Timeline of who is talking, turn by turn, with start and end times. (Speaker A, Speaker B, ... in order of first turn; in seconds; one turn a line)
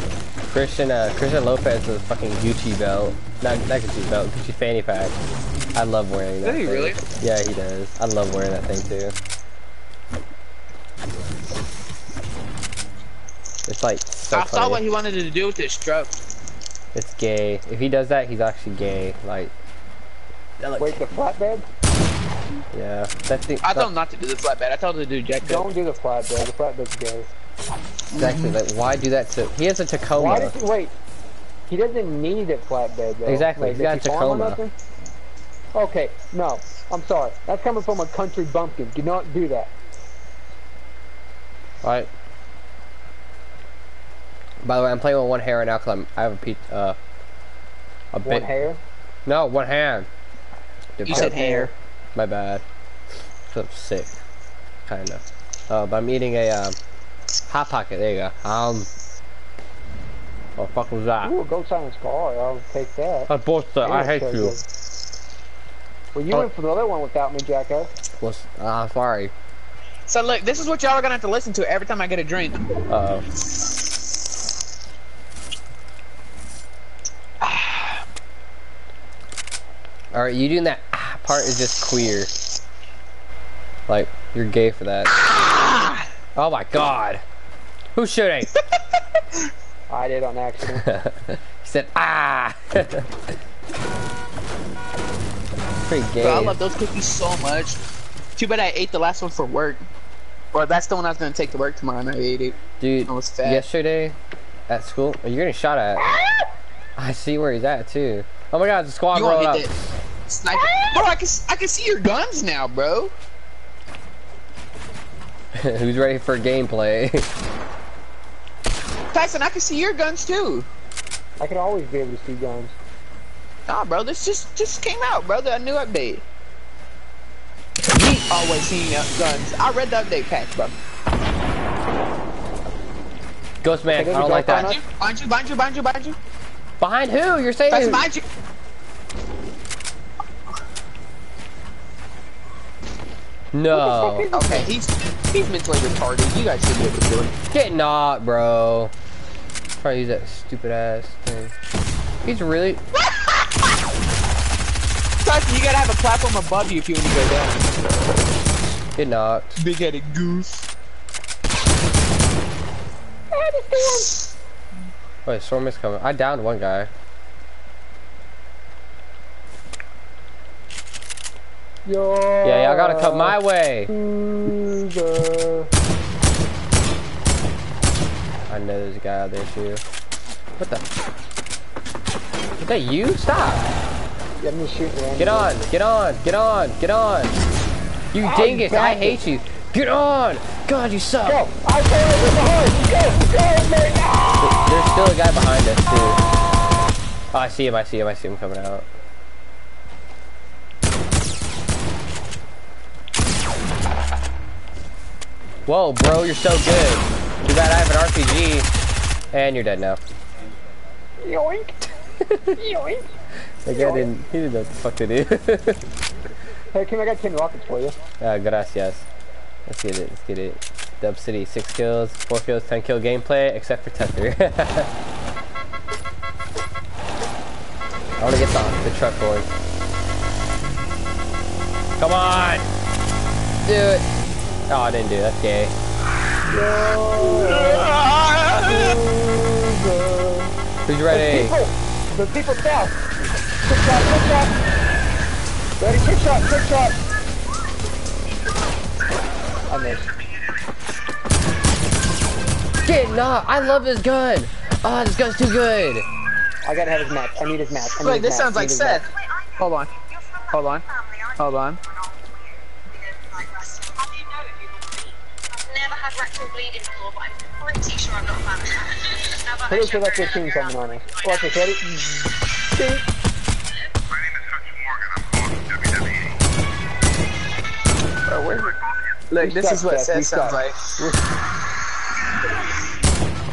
Speaker A: 0.5-5.2
Speaker A: 5.8-9.2
Speaker B: 6.4-7.0
Speaker A: 13.7-14.8
Speaker B: 14.3-16.1
Speaker A: 16.9-19.5
Speaker A: 20.6-21.0
Speaker C: 20.8-21.6
Speaker A: 22.7-23.9
Speaker B: 23.6-25.7
Speaker C: 25.4-27.3
Speaker B: 28.1-28.6
Speaker A: 28.2-30.5
Speaker C: 30.1-30.9
Speaker C: 31.7-34.7
Speaker A: 33.2-34.6
Speaker C: 35.7-39.7
Speaker A: 41.8-42.1
Speaker A: 44.6-47.0
Speaker A: 48.1-48.6
Speaker C: 48.2-48.8
Speaker A: 49.3-50.1
Speaker A: 51.0-51.4
Speaker B: 51.1-51.7
Speaker C: 51.1-51.7
Speaker A: 52.1-52.6
Speaker A: 53.5-54.2
Speaker A: 54.9-56.8
Speaker A: 57.5-58.9
Speaker A: 60.6-61.3
Speaker C: 61.2-63.3
Speaker A: 63.3-64.6
Speaker C: 63.8-64.6
Speaker C: 66.1-67.9
Speaker A: 68.2-69.3
Speaker B: 70.1-72.6
Speaker A: 72.9-73.2
Speaker B: 77.4-78.0
Speaker A: 80.1-82.3
Speaker A: 83.9-85.1
Speaker B: 85.4-86.0
Speaker A: 86.4-87.2
Speaker A: 88.0-88.5
Speaker C: 89.9-90.8
Speaker A: 90.8-93.1
Speaker A: 95.9-96.6
Speaker B: 96.2-97.8
Speaker B: 98.4-99.9
Speaker B: 100.5-103.7
Speaker A: 102.8-104.2
Speaker A: 104.7-106.1
Speaker C: 106.0-106.5
Speaker A: 107.0-109.9
Speaker B: 109.1-109.7
Speaker B: 110.3-113.1
Speaker C: 110.5-111.0
Speaker A: 115.6-117.3
Speaker B: 119.1-120.7
Speaker C: 121.4-122.8
Speaker B: 123.7-126.2
Speaker B: 127.9-130.8
Speaker A: 133.6-134.7
Speaker C: 133.9-134.8
Speaker B: 134.5-136.2
Speaker A: 136.8-138.1
Speaker B: 137.7-138.2
Speaker A: 143.5-144.3
Speaker C: 143.7-144.7
Speaker B: 144.3-147.3
Speaker A: 147.5-148.9
Speaker A: 149.8-151.6
Speaker A: 152.2-152.8
Speaker B: 155.2-157.7
Speaker A: 159.0-159.6
Speaker B: 159.6-160.6
Speaker C: 163.3-164.1
Speaker A: 165.3-166.9
Speaker C: 171.9-173.4
Speaker A: 172.4-173.9
Speaker C: 173.9-175.7
Speaker A: 178.5-179.8
Speaker A: 180.6-180.9
Speaker A: 182.6-183.7
Speaker C: 184.4-185.6
Speaker A: 185.2-187.4
Speaker A: 188.1-191.4
Speaker C: 188.2-189.2
Speaker C: 191.2-194.6
Speaker A: 194.4-196.2
Speaker A: 197.3-198.9
Speaker A: 205.7-208.7
Speaker A: 209.3-210.0
Speaker C: 211.2-211.9
Speaker C: 212.5-213.1
Speaker A: 213.6-215.8
Speaker C: 213.7-214.1
Speaker C: 216.7-218.0
Speaker A: 218.2-219.1
Speaker A: 219.7-224.9
Speaker A: 228.2-229.5
Speaker A: 232.0-232.7
Speaker A: 233.7-234.1
Speaker A: 234.7-235.7
Speaker C: 236.5-238.0
Speaker B: 237.2-239.0
Speaker C: 238.5-240.5
Speaker A: 240.9-241.6
Speaker C: 241.1-243.0
Speaker C: 243.7-244.6
Speaker C: 245.8-247.0
Speaker C: 249.7-250.1
Speaker A: 252.8-256.1
Speaker C: 256.6-259.0
Speaker B: 258.0-259.9
Speaker B: 260.5-261.8
Speaker D: 261.0-261.3
Speaker D: 263.4-264.9
Speaker D: 265.7-268.9
Speaker C: 269.6-273.1
Speaker B: 278.3-280.9
Speaker C: 279.4-281.2